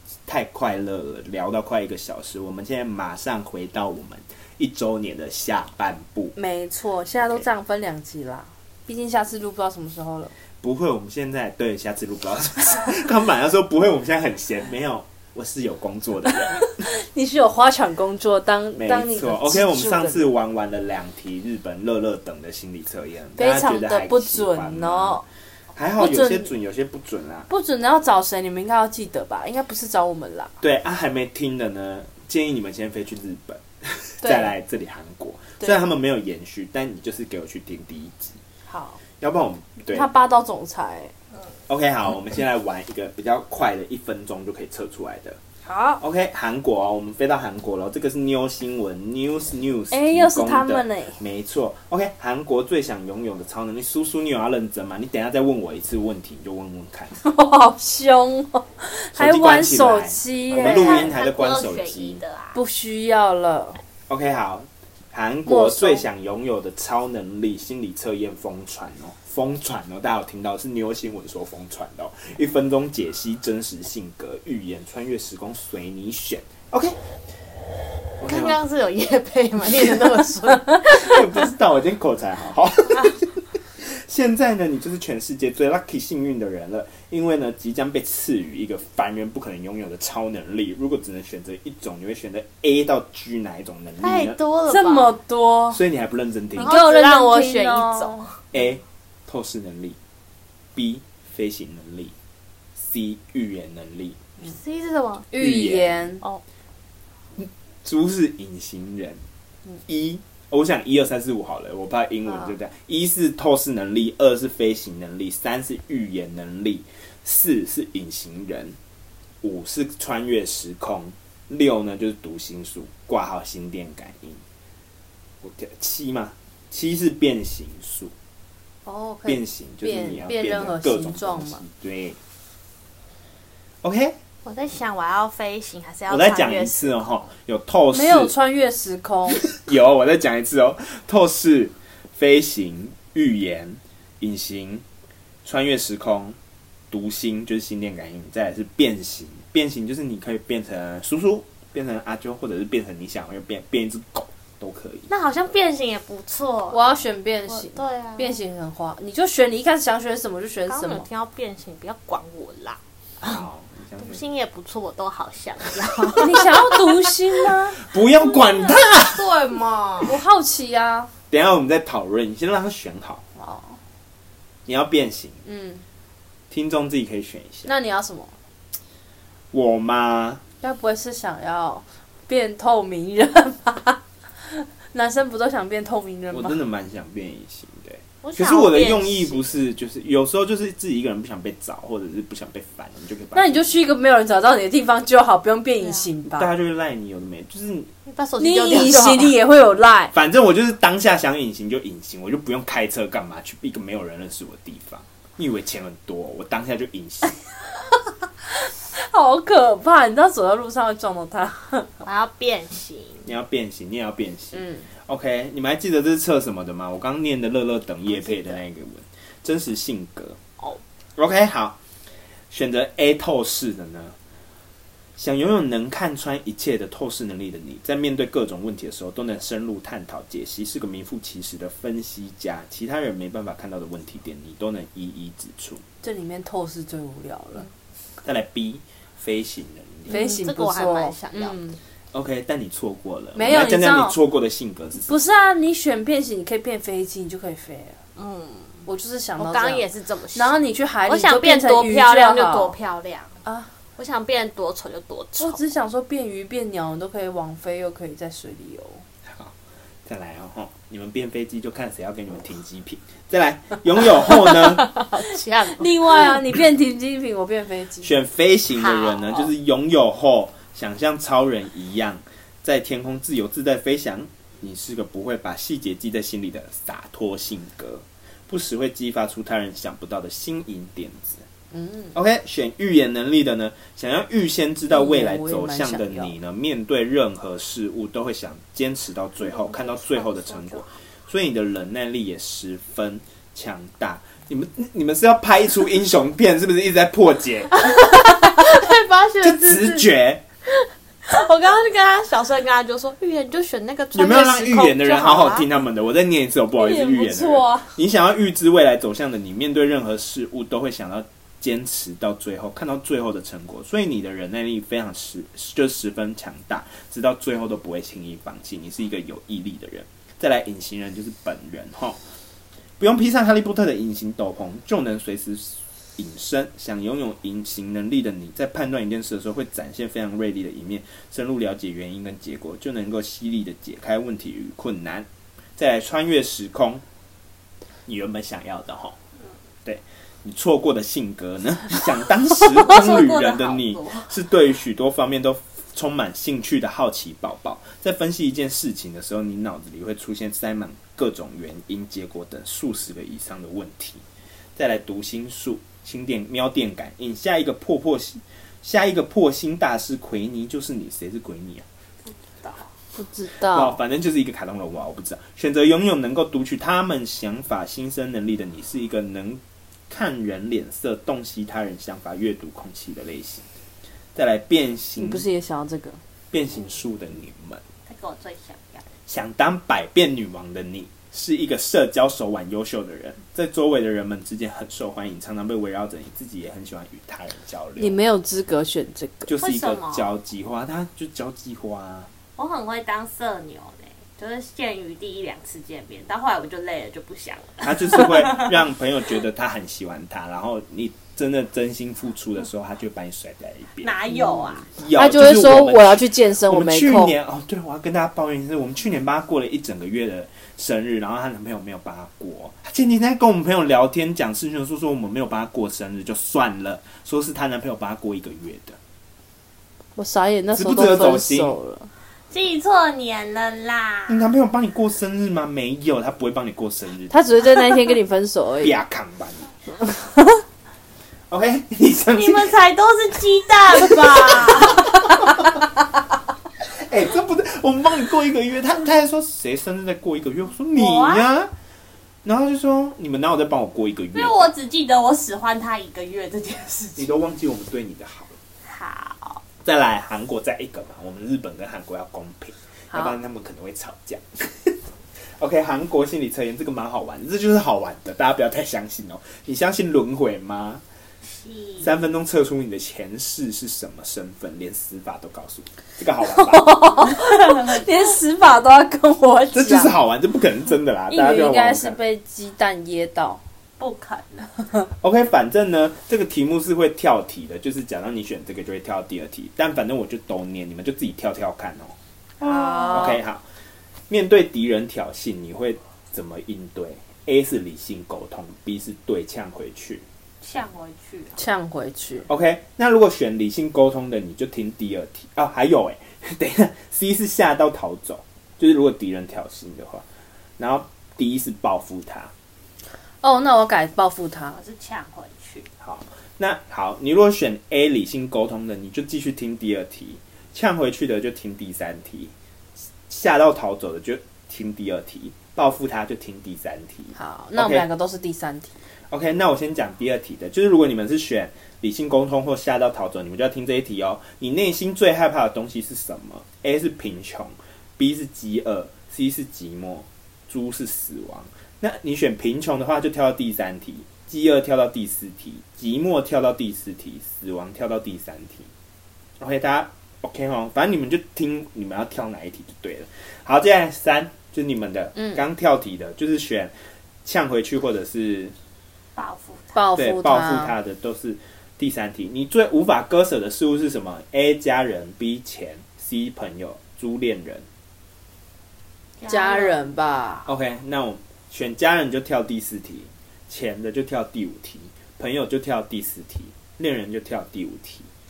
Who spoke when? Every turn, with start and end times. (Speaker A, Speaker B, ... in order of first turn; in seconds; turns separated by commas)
Speaker A: 0.2-6.3, Speaker B: 6.3-10.3, Speaker A: 10.6-16.7, Speaker B: 16.6-20.3, Speaker A: 18.8-25.2, Speaker B: 23.4-25.2, Speaker A: 25.7-27.5, Speaker B: 26.0-26.5, Speaker B: 27.5-30.5, Speaker A: 30.6-38.4, Speaker B: 34.2-34.5, Speaker B: 38.7-39.0, Speaker A: 39.2-40.1, Speaker B: 39.9-41.1, Speaker A: 41.7-45.4, Speaker B: 45.7-46.0, Speaker A: 46.0-57.1, Speaker B: 49.9-51.2, Speaker B: 57.2-61.1, Speaker A: 59.1-62.2, Speaker C: 60.5-62.6, Speaker B: 62.5-63.8, Speaker A: 64.1-77.0, Speaker B: 65.5-66.0, Speaker A: 78.2-78.6, Speaker C: 78.2-81.3, Speaker A: 80.8-94.4, Speaker C: 94.0-95.1, Speaker B: 94.7-95.8, Speaker A: 95.7-96.7, Speaker B: 96.6-98.3, Speaker C: 96.6-98.4, Speaker A: 98.5-100.0, Speaker A: 100.7-102.1, Speaker A: 102.8-104.2, Speaker C: 104.4-105.3, Speaker B: 105.3-106.2, Speaker A: 105.4-106.0, Speaker A: 107.3-109.2, Speaker A: 109.8-118.8, Speaker A: 119.4-124.4, Speaker A: 125.4-128.1, Speaker B: 128.9-131.6, Speaker A: 129.2-132.2, Speaker A: 133.8-134.2, Speaker C: 134.4-137.2, Speaker A: 136.1-138.3, Speaker B: 137.9-139.4, Speaker A: 139.5-144.8, Speaker A: 145.4-146.4, Speaker A: 146.9-155.1, Speaker C: 155.1-156.8, Speaker B: 156.7-161.1, Speaker C: 157.5-158.3, Speaker C: 160.7-162.8, Speaker A: 163.2-164.2, Speaker C: 164.0-166.9, Speaker B: 166.2-167.8, Speaker A: 167.8-169.3, Speaker C: 168.2-170.2, Speaker B: 170.0-171.1, Speaker A: 171.3-173.2, Speaker B: 173.4-173.8, Speaker A: 174.7-175.4, Speaker B: 175.4-175.8, Speaker A: 176.5-177.7, Speaker B: 177.7-178.3, Speaker A: 179.5-180.4, Speaker B: 180.6-186.6, Speaker A: 186.3-193.7, Speaker C: 188.2-189.4, Speaker B: 193.3-196.5, Speaker C: 195.8-196.1, Speaker A: 196.2-197.9, Speaker C: 198.1-199.3, Speaker B: 198.4-200.1, Speaker A: 200.1-207.4, Speaker B: 208.6-211.9, Speaker C: 212.0-213.3, Speaker A: 213.2-220.4, Speaker B: 214.5-214.8, Speaker A: 221.2-221.8, Speaker A: 222.5-224.2, Speaker A: 225.2-235.8, Speaker B: 236.0-237.7, Speaker A: 238.2-240.2, Speaker C: 240.1-241.6, Speaker B: 240.1-241.8, Speaker A: 242.1-245.2, Speaker B: 243.3-244.2, Speaker B: 245.1-248.0, Speaker C: 248.2-248.8, Speaker B: 248.8-252.7, Speaker C: 249.4-253.4, Speaker B: 253.4-253.7, Speaker C: 254.0-255.6, Speaker B: 255.4-259.0, Speaker A: 259.2-264.9, Speaker C: 264.3-266.4, Speaker B: 265.6-268.1, Speaker A: 268.0-281.4, Speaker C: 268.7-269.5, Speaker B: 281.7-282.1, Speaker A: 282.1-297.9, Speaker B: 284.9-286.3, Speaker C: 289.4-290.8, Speaker C: 297.7-300.1, Speaker A: 299.4-300.4, Speaker C: 300.7-305.7, Speaker A: 304.1-322.2, Speaker B: 306.8-307.9, Speaker A: 323.0-337.0, Speaker A: 338.1-339.2, Speaker A: 339.8-354.2, Speaker C: 342.6-344.3, Speaker A: 354.8-361.9, Speaker C: 362.3-362.9, Speaker B: 363.1-364.0, Speaker A: 363.6-373.6, Speaker A: 374.3-375.4, Speaker B: 375.2-376.2, Speaker A: 376.5-377.8, Speaker C: 378.1-379.0, Speaker A: 379.3-388.2, Speaker B: 388.0-389.5, Speaker A: 389.5-392.3, Speaker C: 389.6-390.3, Speaker C: 392.6-398.8, Speaker A: 397.8-419.0, Speaker C: 404.0-404.9, Speaker B: 405.1-407.3, Speaker B: 420.1-422.1, Speaker A: 420.7-421.7, Speaker C: 422.5-424.4, Speaker A: 424.3-427.8, Speaker B: 427.3-428.9, Speaker A: 428.8-429.7, Speaker B: 430.0-430.6, Speaker A: 431.5-432.7, Speaker C: 432.4-435.1, Speaker A: 434.2-435.7, Speaker A: 436.9-441.7, Speaker C: 440.9-441.4, Speaker A: 442.4-444.7, Speaker C: 444.3-447.3, Speaker A: 447.2-448.6, Speaker C: 448.8-449.6, Speaker A: 449.8-455.0, Speaker A: 455.6-461.0, Speaker C: 461.4-462.1, Speaker A: 462.0-466.9, Speaker B: 466.5-470.1, Speaker A: 469.7-472.2, Speaker B: 471.3-473.6, Speaker C: 474.0-474.7, Speaker A: 475.2-483.6, Speaker B: 482.6-483.4, Speaker A: 484.3-490.2, Speaker C: 490.6-491.6, Speaker B: 491.6-492.5, Speaker A: 492.5-500.2, Speaker A: 500.8-502.5, Speaker B: 503.4-504.8, Speaker C: 504.7-505.9, Speaker A: 506.0-512.5, Speaker A: 513.2-518.1, Speaker B: 517.3-518.9, Speaker A: 519.3-538.9, Speaker A: 539.6-546.9, Speaker A: 547.4-548.7, Speaker C: 549.4-550.0, Speaker B: 549.9-550.9, Speaker A: 550.1-557.9, Speaker C: 559.4-560.1, Speaker B: 559.5-560.6, Speaker A: 560.6-568.3